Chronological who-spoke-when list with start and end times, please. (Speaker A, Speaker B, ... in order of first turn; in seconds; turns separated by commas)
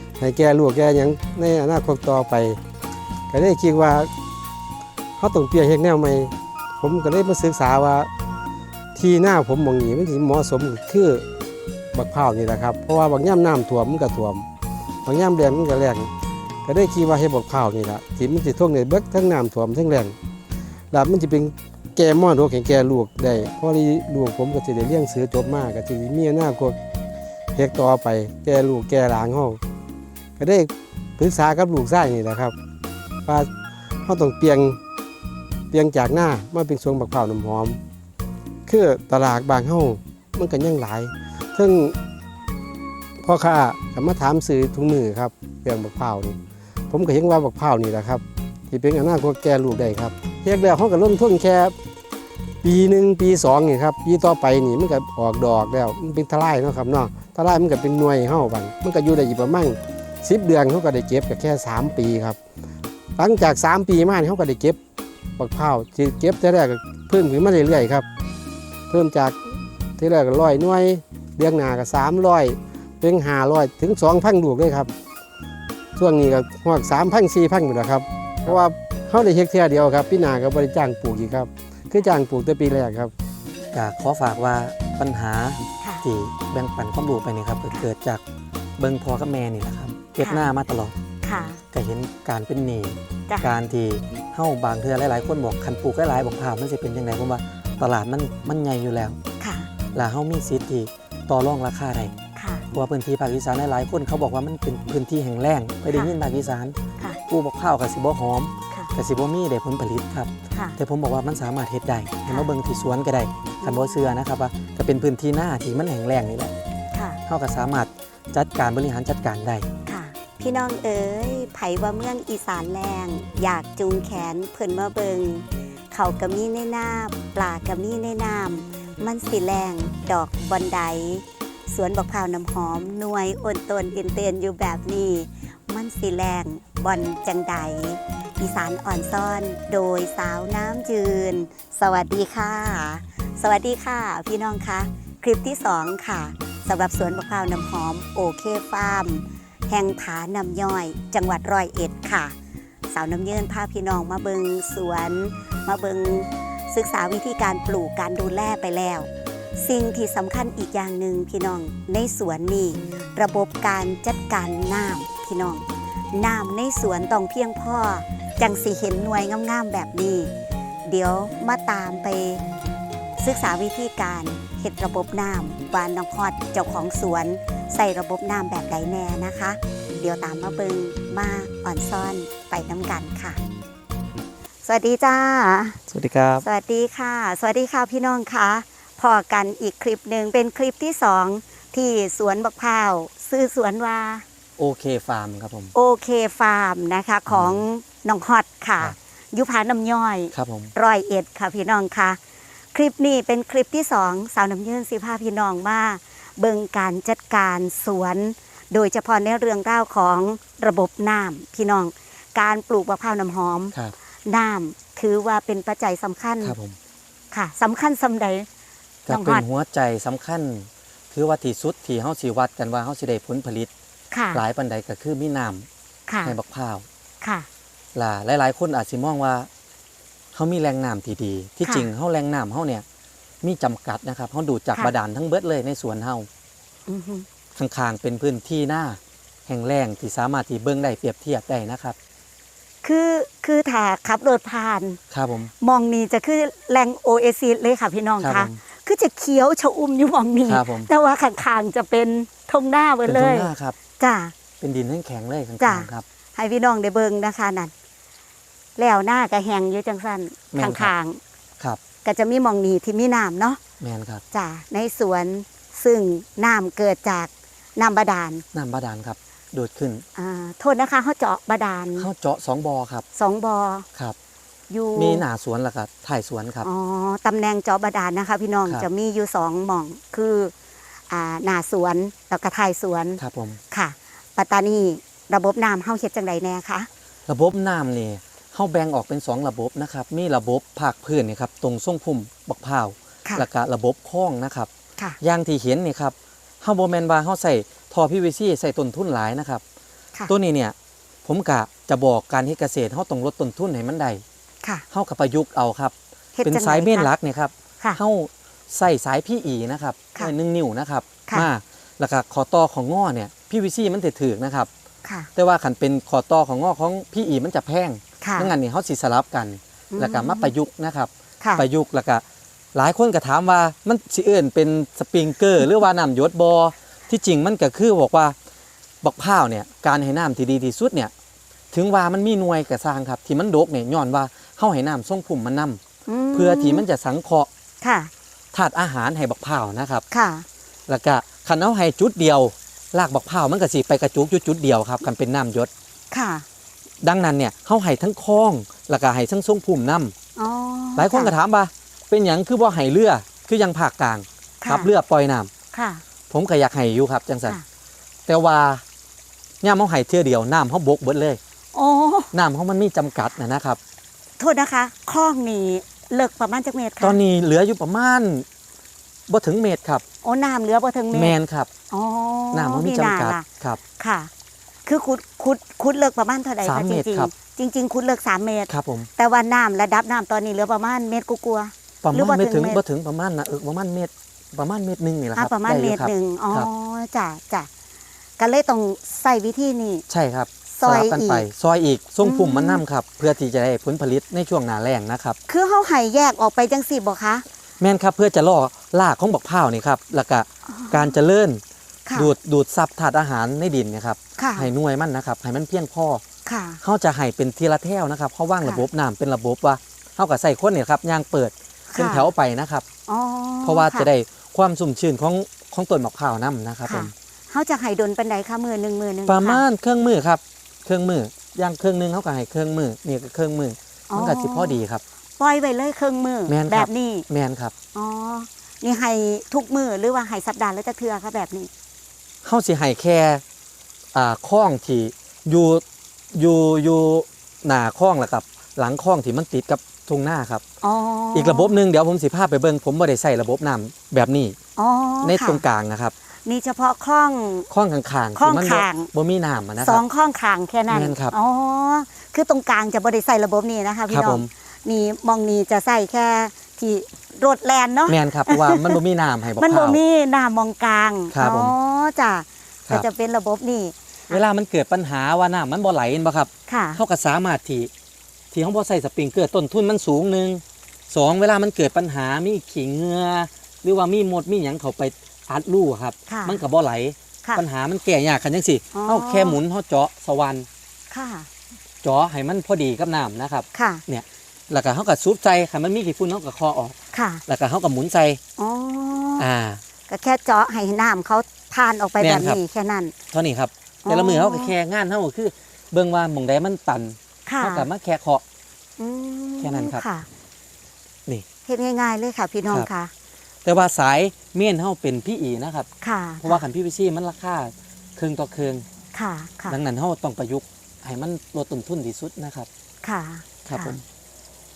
Speaker A: 0.2-2.6, Speaker A: 3.3-4.1, Speaker A: 5.2-8.1, Speaker A: 8.9-11.2, Speaker A: 11.9-14.4, Speaker A: 15.1-16.1, Speaker A: 16.6-20.1, Speaker A: 20.9-26.8, Speaker A: 27.5-29.6, Speaker A: 30.4-32.5, Speaker A: 34.0-34.8, Speaker A: 35.7-37.8, Speaker A: 38.7-42.0, Speaker A: 43.2-46.4, Speaker A: 46.9-51.7, Speaker A: 52.6-62.4, Speaker A: 63.2-64.8, Speaker A: 65.4-68.0, Speaker A: 68.9-69.4, Speaker A: 70.0-74.9, Speaker A: 76.0-83.1, Speaker B: 83.7-88.2, Speaker B: 88.8-90.9, Speaker C: 90.2-90.5, Speaker C: 91.2-91.6, Speaker B: 91.7-99.2, Speaker C: 99.4-99.7, Speaker B: 99.9-102.1, Speaker C: 102.3-102.7, Speaker B: 102.7-106.8, Speaker B: 107.3-116.5, Speaker C: 113.6-114.0, Speaker C: 116.9-117.2, Speaker B: 117.3-119.7, Speaker C: 119.8-152.3, Speaker C: 152.9-170.3, Speaker C: 170.9-172.4, Speaker C: 173.2-183.4, Speaker C: 184.6-185.8, Speaker B: 185.9-186.4, Speaker C: 186.4-194.2, Speaker B: 194.6-195.7, Speaker C: 195.7-202.2, Speaker B: 197.3-197.6, Speaker B: 200.3-200.7, Speaker C: 202.7-213.7, Speaker C: 214.2-216.6, Speaker B: 216.4-216.8, Speaker C: 217.3-218.5, Speaker B: 219.1-223.7, Speaker C: 219.1-219.4, Speaker C: 224.1-224.4, Speaker B: 224.3-225.7, Speaker C: 226.1-226.4, Speaker B: 226.2-226.8, Speaker C: 227.2-227.5, Speaker B: 227.9-229.5, Speaker B: 230.3-232.8, Speaker B: 233.4-236.3, Speaker C: 236.9-237.2, Speaker B: 237.6-242.0, Speaker C: 242.8-245.0, Speaker B: 245.1-245.5, Speaker C: 245.6-254.3, Speaker B: 248.2-248.6, Speaker B: 250.5-250.9, Speaker B: 253.1-253.8, Speaker B: 254.6-256.0, Speaker C: 255.6-257.7, Speaker C: 258.8-261.2, Speaker B: 260.5-260.9, Speaker C: 262.0-263.6, Speaker B: 263.8-264.2, Speaker C: 264.3-268.4, Speaker B: 268.5-270.0, Speaker C: 270.1-272.1, Speaker B: 272.0-273.0, Speaker C: 273.1-273.9, Speaker C: 274.7-275.2, Speaker B: 274.9-276.7, Speaker C: 276.6-280.5, Speaker C: 281.1-283.2, Speaker B: 283.2-283.6, Speaker C: 283.7-286.9, Speaker B: 287.3-294.7, Speaker B: 295.2-299.6, Speaker B: 300.3-304.2, Speaker B: 304.9-314.7, Speaker C: 306.4-307.1, Speaker B: 315.4-328.4, Speaker C: 318.2-318.5, Speaker C: 319.9-320.5, Speaker C: 321.4-321.6, Speaker B: 329.0-331.1, Speaker B: 331.7-335.8, Speaker C: 336.1-336.8, Speaker B: 336.3-337.5, Speaker C: 337.8-338.1, Speaker B: 338.5-340.0, Speaker C: 340.1-340.4, Speaker B: 340.9-345.7, Speaker C: 346.1-346.4, Speaker B: 347.0-350.1, Speaker C: 350.4-351.3, Speaker B: 350.9-355.5, Speaker C: 354.6-354.9, Speaker C: 355.7-356.0, Speaker B: 356.3-357.6, Speaker B: 358.3-358.8, Speaker B: 359.6-361.4, Speaker C: 361.7-362.3, Speaker B: 362.3-363.8, Speaker C: 364.4-367.2, Speaker B: 367.0-368.4, Speaker B: 369.3-370.0, Speaker C: 370.2-371.4, Speaker B: 371.1-371.7, Speaker C: 371.9-373.4, Speaker B: 372.5-373.8, Speaker C: 374.0-374.3, Speaker C: 374.9-382.8, Speaker B: 376.6-377.3, Speaker B: 378.7-379.1, Speaker B: 382.0-386.7, Speaker C: 385.4-387.7, Speaker C: 388.4-390.0, Speaker B: 390.1-395.4, Speaker C: 390.7-391.4, Speaker C: 392.2-392.8, Speaker C: 395.5-397.4, Speaker B: 397.8-401.6, Speaker C: 400.7-401.1, Speaker C: 402.1-402.3, Speaker B: 402.1-406.2, Speaker C: 404.4-404.7, Speaker C: 406.4-406.8, Speaker B: 406.8-412.8, Speaker C: 411.9-412.3, Speaker C: 413.1-414.1, Speaker B: 413.6-417.1, Speaker C: 416.9-419.6, Speaker B: 419.2-425.0, Speaker C: 424.1-424.8, Speaker C: 425.4-427.2, Speaker B: 426.5-427.7, Speaker C: 427.9-431.7, Speaker B: 432.4-433.4, Speaker B: 434.1-440.6, Speaker C: 440.8-441.8, Speaker B: 441.3-444.6, Speaker C: 444.8-445.6, Speaker B: 445.2-446.1, Speaker C: 446.4-447.7, Speaker B: 447.7-450.0, Speaker C: 448.4-449.1, Speaker C: 449.8-459.0, Speaker B: 450.9-451.3, Speaker B: 454.1-454.5, Speaker B: 458.1-460.0, Speaker C: 459.6-464.4, Speaker B: 461.3-461.7, Speaker B: 464.3-467.9, Speaker C: 466.7-467.0, Speaker B: 468.5-480.7, Speaker C: 476.3-476.6, Speaker C: 478.9-479.6, Speaker C: 481.1-481.5, Speaker B: 482.0-486.9, Speaker C: 483.7-484.0, Speaker C: 487.1-487.4, Speaker B: 487.5-488.4, Speaker C: 488.6-489.4, Speaker B: 489.4-489.8, Speaker C: 490.1-493.1, Speaker B: 492.2-492.6, Speaker B: 493.3-498.4, Speaker C: 494.0-494.7, Speaker C: 497.4-497.9, Speaker C: 499.0-500.3, Speaker B: 499.6-500.0, Speaker C: 501.7-503.1, Speaker B: 503.6-505.9, Speaker C: 506.0-506.6, Speaker B: 506.4-508.8, Speaker C: 509.1-509.8, Speaker B: 509.7-512.7, Speaker C: 513.0-514.0, Speaker B: 513.6-514.0